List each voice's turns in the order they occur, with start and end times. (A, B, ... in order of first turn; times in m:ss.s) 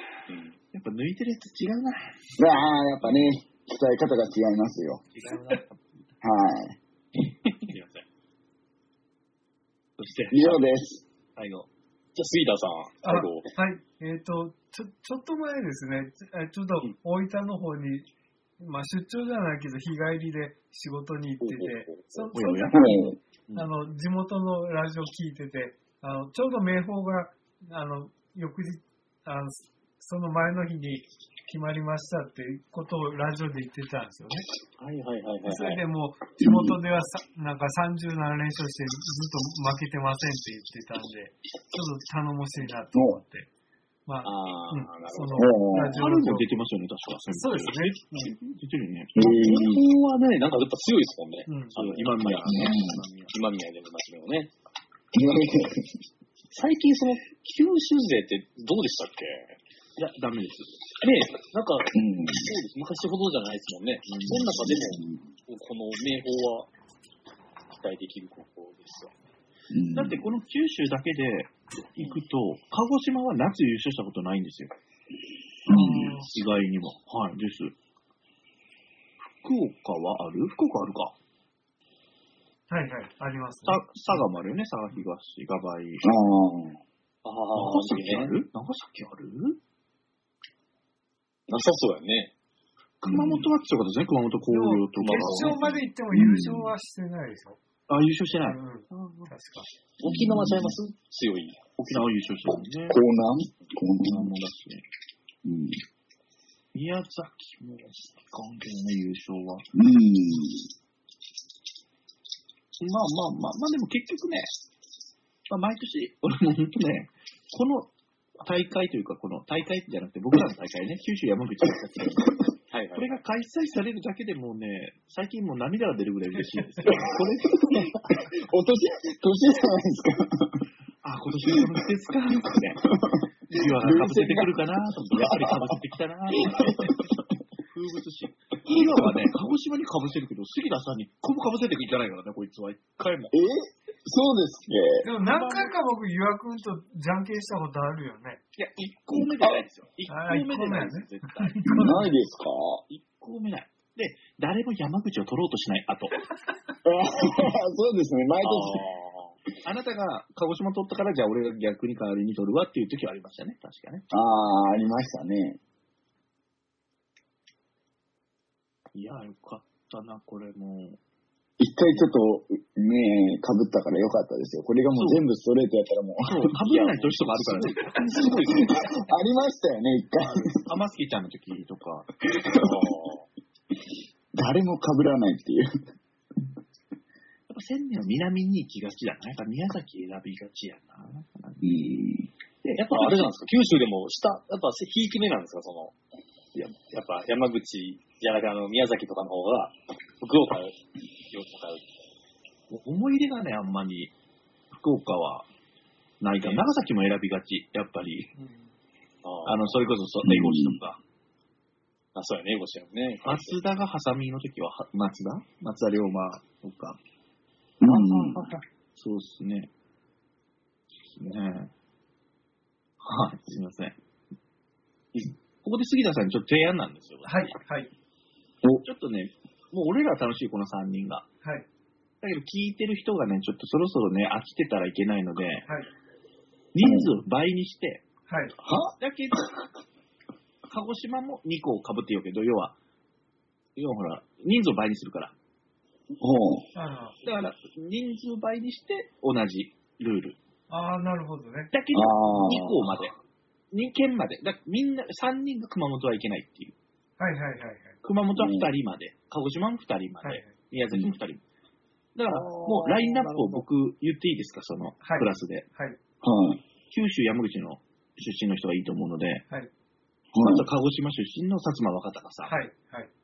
0:00.3-0:00.6 A
0:00.7-0:02.3 B
0:02.4-0:05.0 C
0:05.1-0:06.0 B
0:06.2-0:06.8 C
0:07.5-0:07.7 A
0:07.7-0:08.0 B
0:10.0-0:10.6 B
0:10.3-0:11.0 C
0:11.4-0:11.7 B
0:12.1-0:13.5 A
0:13.0-0:34.5 D
0:21.4-0:22.3 A
0:22.3-0:23.0 B
0:22.7-0:23.2 C
0:34.8-0:35.8 A
0:35.4-0:43.5 D
0:36.4-0:36.8 C
0:42.9-0:43.2 C
0:44.0-0:46.5 D
0:44.2-0:45.6 A
0:45.4-0:46.0 C
0:45.9-0:49.4 B
0:47.3-0:48.4 D
0:49.1-0:49.8 C
0:49.2-0:52.7 A
0:51.5-0:51.8 D
0:51.7-0:53.3 B
0:52.4-0:53.0 C
0:53.3-0:54.5 A
0:55.1-0:56.0 C
0:56.5-0:59.6 A
1:00.0-1:00.7 B
1:01.0-1:06.7 A
1:01.9-1:02.5 C
1:04.1-1:04.5 B
1:04.5-1:05.2 C
1:07.7-1:09.1 A
1:09.7-1:10.2 C
1:09.9-1:14.7 B
1:15.6-1:16.2 C
1:15.7-1:16.3 D
1:15.9-1:17.7 B
1:19.4-1:21.1 B
1:22.7-1:23.8 D
1:23.6-1:26.1 B
1:26.0-1:26.8 C
1:27.2-1:28.4 A
1:27.5-1:29.6 B
1:31.5-1:32.3 A
1:33.0-1:35.8 B
1:33.0-1:33.5 C
1:34.5-1:37.6 D
1:35.0-1:35.8 A
1:36.1-1:36.7 C
1:37.9-1:39.3 B
1:38.4-1:39.7 D
1:40.0-1:41.6 A
1:40.0-1:40.8 C
1:41.8-1:43.0 B
1:42.5-1:44.3 C
1:44.0-1:44.8 B
1:45.4-1:45.8 C
1:46.7-1:49.7 B
1:49.7-1:50.7 C
1:52.8-1:54.5 B
1:55.5-2:02.4 B
2:02.7-2:03.2 A
2:03.0-2:08.0 B
2:06.8-2:10.7 C
2:11.0-2:12.9 B
2:11.5-2:11.8 C
2:12.9-2:14.5 C
2:13.5-2:17.1 B
2:15.1-2:15.8 C
2:16.4-2:17.2 C
2:17.6-2:23.4 B
2:18.7-2:19.1 C
2:23.3-2:25.1 C
2:25.0-2:28.4 D
2:25.1-2:25.7 B
2:28.5-2:32.0 B
2:29.2-2:29.6 C
2:30.1-2:32.1 D
2:31.7-2:32.8 C
2:32.9-2:36.3 B
2:36.8-2:38.8 C
2:38.4-2:39.3 A
2:39.6-2:44.0 B
2:44.1-2:45.6 C
2:48.9-2:51.0 B
2:51.6-2:56.5 C
2:54.9-2:55.2 B
2:56.2-2:58.3 B
2:56.3-2:59.1 A
2:58.3-3:00.7 C
3:00.5-3:02.1 B
3:02.3-3:02.8 C
3:02.6-3:03.3 A
3:04.3-3:05.7 C
3:07.5-3:11.7 B
3:11.6-3:12.3 C
3:12.6-3:13.2 B
3:12.8-3:15.9 A
3:16.6-3:20.8 A
3:21.3-3:21.8 A
3:22.7-3:24.1 B
3:24.7-3:25.5 B
3:26.2-3:28.3 B
3:26.4-3:26.6 A
3:28.4-3:28.6 D
3:29.2-3:29.8 A
3:29.4-3:31.0 B
3:30.2-3:30.8 C
3:32.1-3:33.6 A
3:33.2-3:37.0 B
3:37.8-3:38.5 C
3:37.8-3:38.6 A
3:38.9-3:39.7 B
3:41.1-3:41.7 B
3:43.0-3:44.0 B
3:45.1-3:47.5 B
3:47.2-3:47.9 D
3:48.8-3:51.3 B
3:52.2-3:55.6 B
3:56.7-3:58.0 B
3:56.8-3:57.1 C
3:58.3-3:58.5 D
3:58.6-3:58.9 C
3:59.0-3:59.5 B
4:00.7-4:02.8 B
4:03.8-4:05.3 B
4:06.2-4:06.7 C
4:06.7-4:07.2 D
4:07.2-4:10.4 B
4:10.7-4:11.7 D
4:11.7-4:13.1 B
4:11.9-4:13.0 C
4:13.7-4:16.7 B
4:17.2-4:18.0 D
4:18.0-4:21.4 B
4:18.3-4:18.7 C
4:20.2-4:20.5 D
4:22.1-4:25.6 B
4:22.3-4:23.6 A
4:25.0-4:26.0 D
4:26.2-4:26.6 C
4:26.9-4:29.4 B
4:30.3-4:30.7 C
4:30.4-4:32.5 B
4:32.4-4:33.1 D